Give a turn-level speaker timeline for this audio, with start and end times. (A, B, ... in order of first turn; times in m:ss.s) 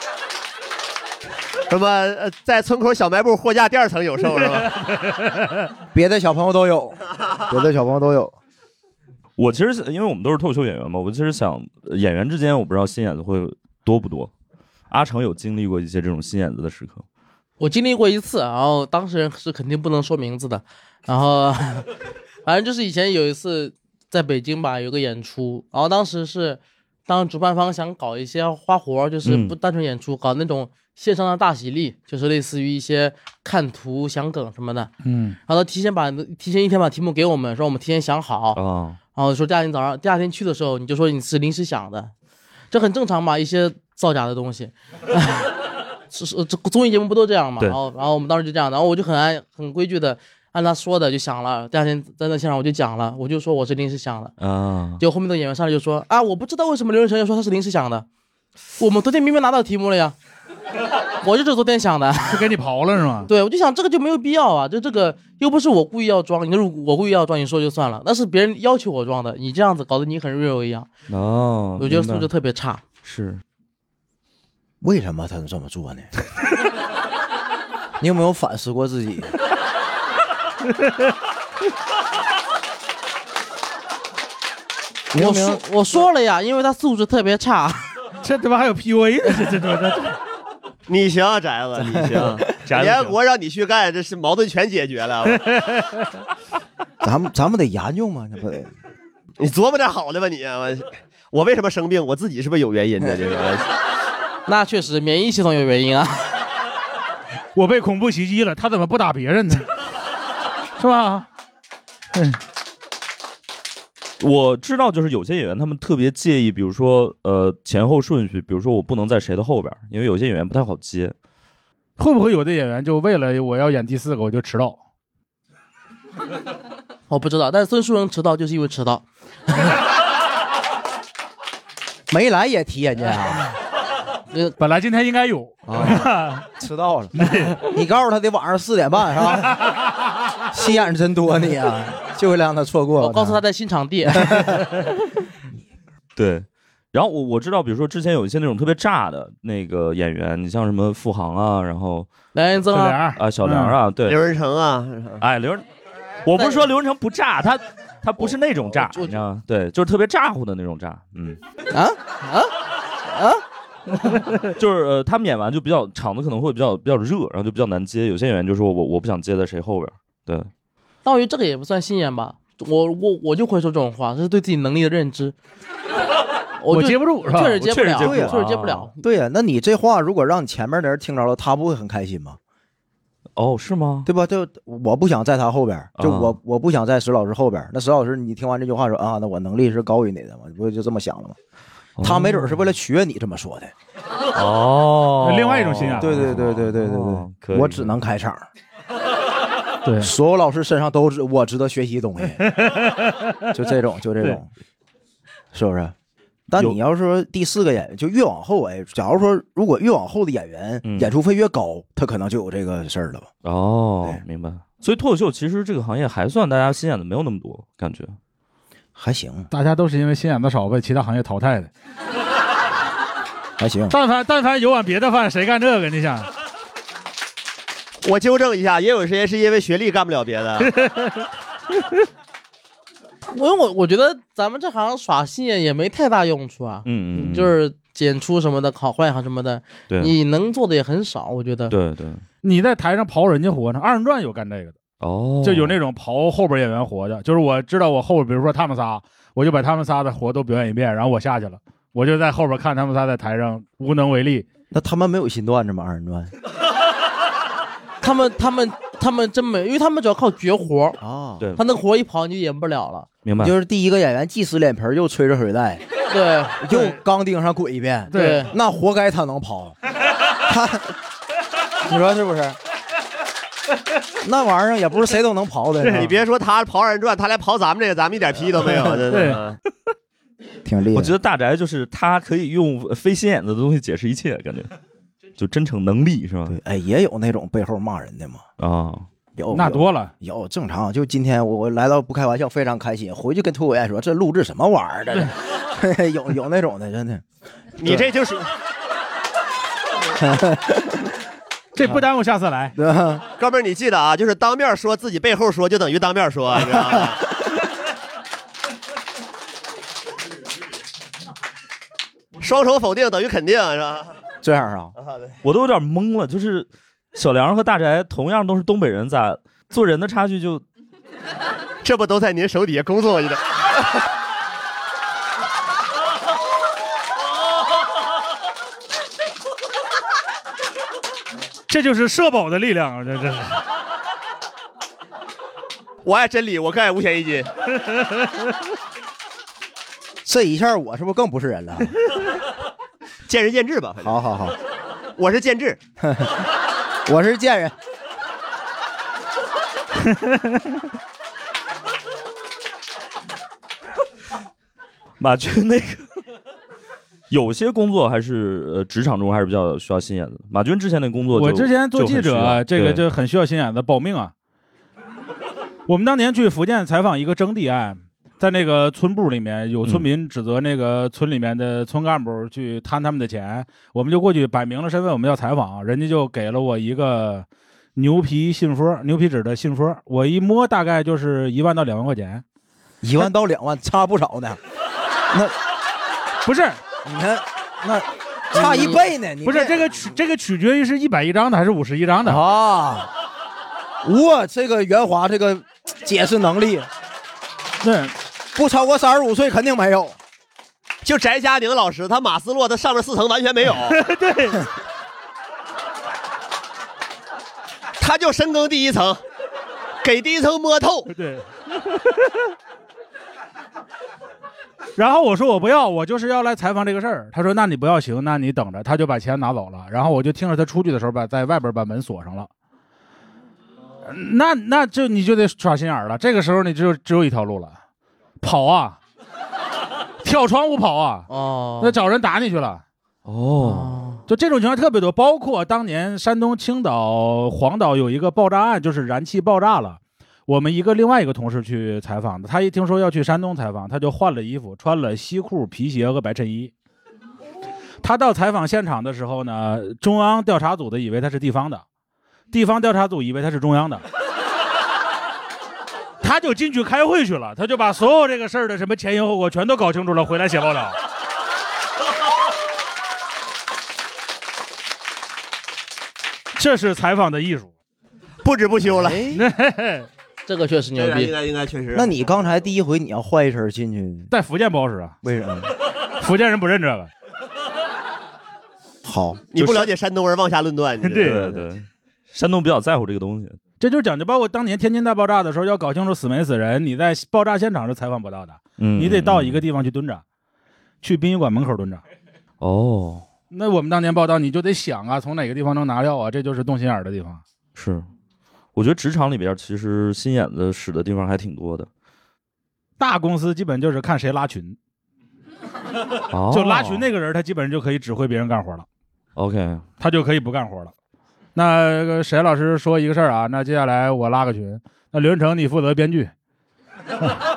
0:01.7-0:04.9 A
0:05.9-0:08.4 B
0:09.4-0:14.3 C
0:14.9-0:17.0 C
0:17.6-0:21.9 D
0:22.4-0:34.9 D
0:29.2-0:29.6 C
0:35.0-0:35.4 E
0:35.5-0:38.6 D
0:38.6-0:39.0 C
0:39.1-0:42.1 D
0:42.7-0:45.5 D
0:46.1-0:54.3 D
0:54.4-0:55.0 C
0:55.0-0:58.1 D
0:58.8-1:00.2 D
1:01.2-1:02.4 D
1:02.3-1:03.3 E
1:03.3-1:10.9 D
1:11.1-1:12.3 C
1:11.8-1:12.8 D
1:13.0-1:13.4 C
1:14.8-1:16.1 B
1:18.0-1:19.4 B
1:25.1-1:25.6 B
1:25.2-1:27.9 D
1:28.2-1:30.2 E
1:30.9-1:35.5 A
1:31.8-1:32.5 B
1:32.6-1:33.2 C
1:37.0-1:38.7 B
1:39.4-1:43.7 A
1:44.5-1:46.3 D
1:47.6-1:49.7 E
1:50.8-1:51.3 E
1:52.1-1:52.4 E
1:54.2-2:01.2 C
2:02.0-2:04.8 E
2:07.1-2:09.8 D
2:12.1-2:13.4 B
2:14.3-2:14.6 D
2:14.6-2:16.4 E
2:15.7-2:19.6 B
2:17.2-2:17.6 E
2:20.5-2:23.4 B
2:23.0-2:24.4 D
2:24.2-2:24.7 B
2:26.2-2:32.1 C
2:32.3-2:33.0 D
2:32.7-2:33.8 E
2:33.2-2:34.2 C
2:34.1-2:35.2 A
2:35.2-2:35.6 C
2:36.3-2:41.4 C
2:36.4-2:36.6 D
2:41.7-2:42.5 D
2:43.0-2:43.4 D
2:44.5-2:50.5 C
2:51.0-2:55.4 D
2:56.6-2:59.0 D
2:56.7-2:57.6 E
2:57.6-2:58.9 C
2:58.0-2:58.4 B
2:59.0-3:02.4 B
3:03.4-3:04.1 C
3:04.1-3:11.4 B
3:06.0-3:06.4 C
3:12.0-3:12.5 C
3:12.0-3:13.7 B
3:14.3-3:17.9 C
3:15.2-3:16.2 E
3:16.0-3:18.5 B
3:19.8-3:20.1 E
3:20.0-3:22.5 B
3:22.5-3:23.3 E
3:23.5-3:24.5 B
3:25.5-3:26.0 B
3:26.5-3:33.3 B
3:30.8-3:31.1 C
3:33.4-3:38.2 C
3:39.0-3:39.5 B
3:39.5-3:41.7 E
3:43.6-3:44.0 B
3:43.9-3:46.3 E
3:48.0-3:50.7 A
3:50.6-3:51.3 E
3:53.3-4:01.7 D
3:56.8-3:57.5 C
4:01.7-4:02.2 C
4:02.4-4:04.8 E
4:05.0-4:05.8 C
4:05.4-4:14.5 E
4:14.7-4:16.3 B
4:18.0-4:21.0 D
4:21.0-4:21.4 B
4:21.6-4:23.1 D
4:23.2-4:23.6 C
4:23.4-4:25.8 B
4:26.1-4:26.6 D
4:26.6-4:29.8 B
4:28.1-4:28.5 E
4:28.1-4:28.5 D
4:30.4-4:30.9 B
4:31.8-4:32.6 B
4:34.2-4:36.1 B
4:35.8-4:36.1 E
4:35.8-4:39.6 A
4:39.1-4:39.4 E
4:40.6-4:41.1 B
4:40.9-4:44.7 C
4:45.4-4:46.6 C
4:46.5-4:48.4 B
4:48.6-4:49.1 C
4:49.4-4:57.2 B
4:49.5-4:50.1 E
4:57.8-4:58.5 A
4:57.8-4:58.1 B
5:00.2-5:01.1 B
5:01.8-5:02.7 E
5:02.8-5:03.2 B
5:03.4-5:07.2 A
5:06.7-5:07.0 B
5:12.4-5:14.1 A
5:14.4-5:14.9 B
5:15.4-5:20.6 C
5:21.8-5:23.6 A
5:31.7-5:33.6 E
5:36.0-5:37.5 A
5:40.2-5:41.9 B
5:43.3-5:44.2 A
5:44.0-5:44.6 B
5:45.2-5:45.8 A
5:46.0-5:46.4 B
5:47.1-5:47.8 B
5:55.2-5:56.0 C
5:57.3-6:03.0 C
6:01.3-6:04.3 E
6:05.9-6:22.4 E
6:23.0-6:24.6 B
6:26.5-6:26.8 E
6:27.0-6:30.0 B
6:28.6-6:29.0 D
6:29.4-6:32.4 E
6:32.2-6:33.1 B
6:34.0-6:36.9 B
6:37.8-6:38.1 E
6:38.6-6:40.2 B
6:41.0-6:44.0 A
6:43.9-6:44.7 E
6:48.0-6:49.2 A
6:50.0-6:51.1 A
6:51.1-6:52.4 E
6:55.0-7:02.5 E
7:04.1-7:07.8 E
7:08.4-7:09.0 E
7:10.2-7:11.3 E
7:11.3-7:12.0 D
7:11.8-7:12.8 E
7:13.2-7:14.0 C
7:13.6-7:14.2 D
7:14.3-7:26.7 E
7:28.0-7:31.8 E
7:32.5-7:34.0 E
7:36.2-7:41.0 E
7:46.6-7:47.7 E
7:48.4-7:49.3 A
7:49.0-7:49.3 D
7:49.3-7:50.1 E
7:50.5-7:51.3 D
7:51.0-7:52.1 A
7:51.9-7:54.3 B
7:54.3-7:55.2 E
7:55.2-7:55.7 B
7:56.2-7:57.1 E
7:59.0-7:59.5 B
7:59.5-8:01.6 A
8:01.0-8:01.5 E
8:01.2-8:03.6 C
8:03.8-8:10.2 E
8:08.8-8:09.6 C
8:11.0-8:12.0 E
8:12.6-8:13.3 C
8:13.5-8:17.4 E
8:17.8-8:18.1 C
8:18.8-8:21.9 C
8:23.0-8:24.8 E
8:26.3-8:27.1 C
8:26.5-8:28.9 E
8:29.4-8:29.8 C
8:30.0-8:30.9 E
8:31.6-8:36.3 E